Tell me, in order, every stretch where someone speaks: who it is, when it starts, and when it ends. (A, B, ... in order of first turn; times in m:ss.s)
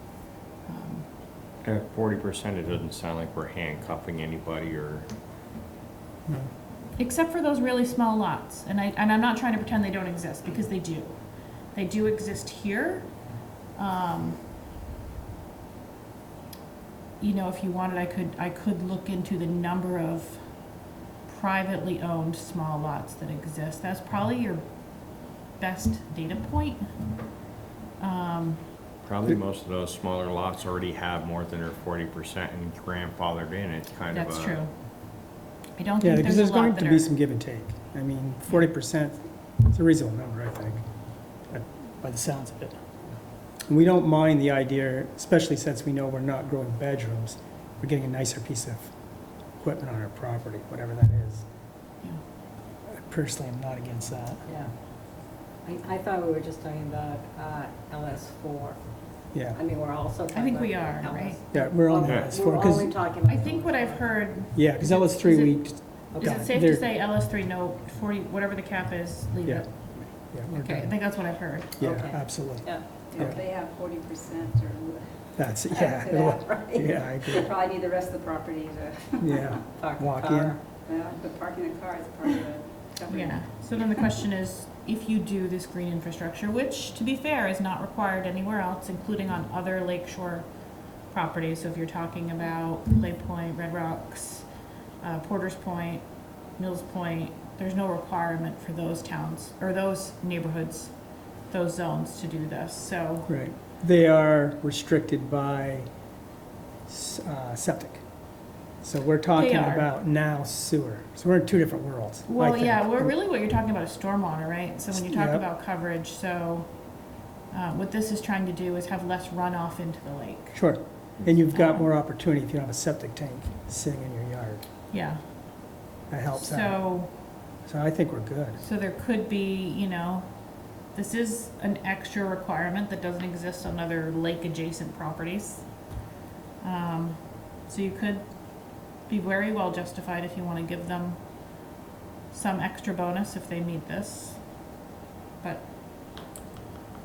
0:00.7-0:01.1 A
0:01.6-0:05.1 B
0:07.0-0:13.1 A
0:13.7-0:14.4 A
0:17.2-0:26.9 A
0:28.0-0:28.6 A
0:29.0-0:34.6 B
0:34.1-0:34.7 A
0:35.8-0:37.1 A
0:36.0-0:40.8 C
0:41.5-0:42.8 C
0:43.7-0:48.9 C
0:49.6-0:51.4 C
0:52.8-0:54.4 C
0:54.5-0:54.7 D
0:55.6-1:04.2 D
0:59.3-0:59.6 C
1:00.3-1:01.4 A
1:01.5-1:03.0 C
1:02.0-1:02.3 B
1:03.2-1:11.8 A
1:04.5-1:06.9 C
1:06.1-1:06.5 D
1:09.4-1:13.4 C
1:11.8-1:13.5 D
1:13.0-1:15.5 E
1:15.4-1:17.5 C
1:15.7-1:17.6 D
1:17.4-1:19.6 E
1:19.2-1:20.6 C
1:19.6-1:20.9 D
1:20.8-1:24.1 E
1:23.1-1:43.3 A
1:43.3-1:45.9 C
1:46.9-1:48.0 C
1:48.8-1:53.1 C
1:49.4-1:49.9 A
1:52.3-1:56.9 A
1:54.9-1:55.4 C
1:57.5-2:00.6 A
2:00.5-2:04.6 C
2:01.5-2:01.9 A
2:04.9-2:05.2 A
2:06.1-2:07.0 C
2:06.3-2:07.1 A
2:07.6-2:08.6 C
2:08.6-2:16.0 A
2:16.6-2:21.6 A
2:22.3-2:24.8 A
2:25.4-2:25.7 A